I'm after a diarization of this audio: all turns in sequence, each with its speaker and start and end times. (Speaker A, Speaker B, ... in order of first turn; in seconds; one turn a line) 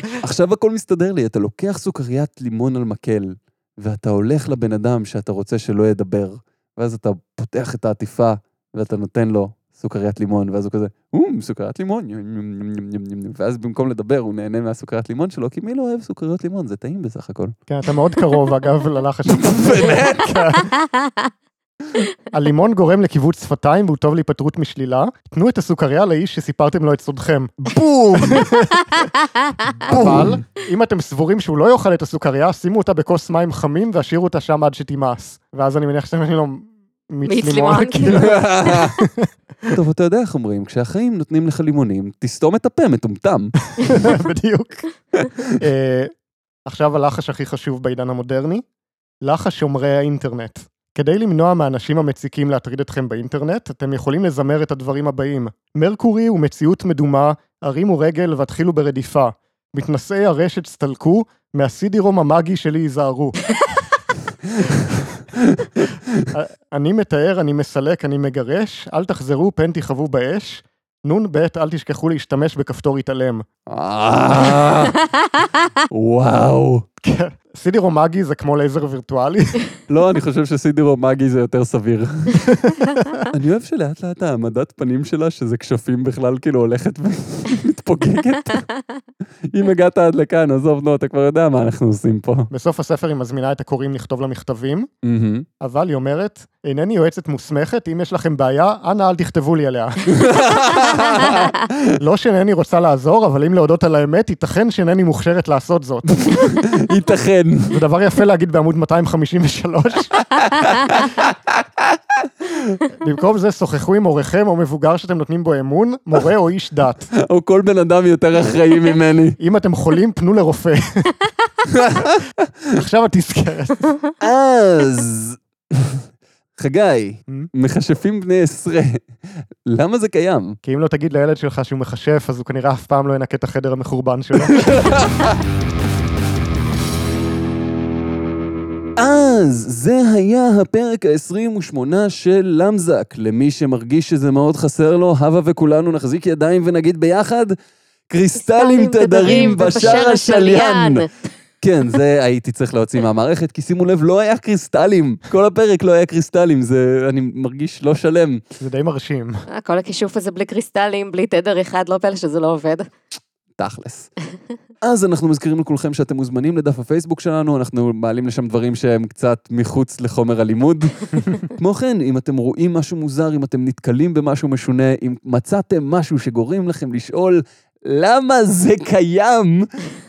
Speaker A: 0.2-17.6
Speaker B: 17.7-20.7
Speaker A: 19.3-20.4
Speaker C: 20.8-21.3
Speaker B: 22.3-27.5
Speaker A: 27.6-28.5
Speaker B: 28.2-29.1
Speaker C: 29.4-29.7
Speaker A: 29.8-30.4
Speaker B: 29.9-39.3
Speaker C: 37.2-39.0
Speaker A: 38.1-38.9
Speaker A: 39.7-43.5
Speaker B: 43.9-44.9
Speaker A: 45.2-45.5
Speaker B: 45.6-46.1
Speaker B: 46.6-48.6
Speaker B: 49.2-63.4
Speaker A: 65.5-66.2
Speaker B: 66.3-73.4
Speaker A: 73.7-75.0
Speaker A: 75.9-76.8
Speaker B: 77.0-79.6
Speaker A: 79.9-82.4
Speaker B: 82.5-83.2
Speaker A: 83.3-88.6
Speaker A: 89.5-92.5
Speaker B: 92.5-94.9
Speaker A: 95.0-95.5
Speaker B: 95.6-100.1
Speaker A: 100.1-101.8
Speaker B: 100.6-101.4
Speaker B: 102.0-106.5
Speaker A: 106.3-107.8
Speaker B: 107.7-111.0
Speaker A: 110.4-112.3
Speaker B: 112.9-117.1
Speaker A: 117.2-119.4
Speaker B: 119.4-121.1
Speaker A: 121.7-122.5
Speaker B: 122.8-123.9
Speaker A: 124.2-126.0
Speaker A: 126.6-129.1
Speaker A: 129.6-130.6
Speaker B: 130.6-134.9
Speaker A: 134.4-135.4
Speaker A: 139.0-147.6
Speaker A: 148.1-151.0
Speaker C: 148.4-151.1
Speaker A: 151.6-158.4
Speaker B: 158.6-159.4
Speaker C: 159.5-162.9
Speaker A: 163.6-164.1
Speaker A: 164.8-179.7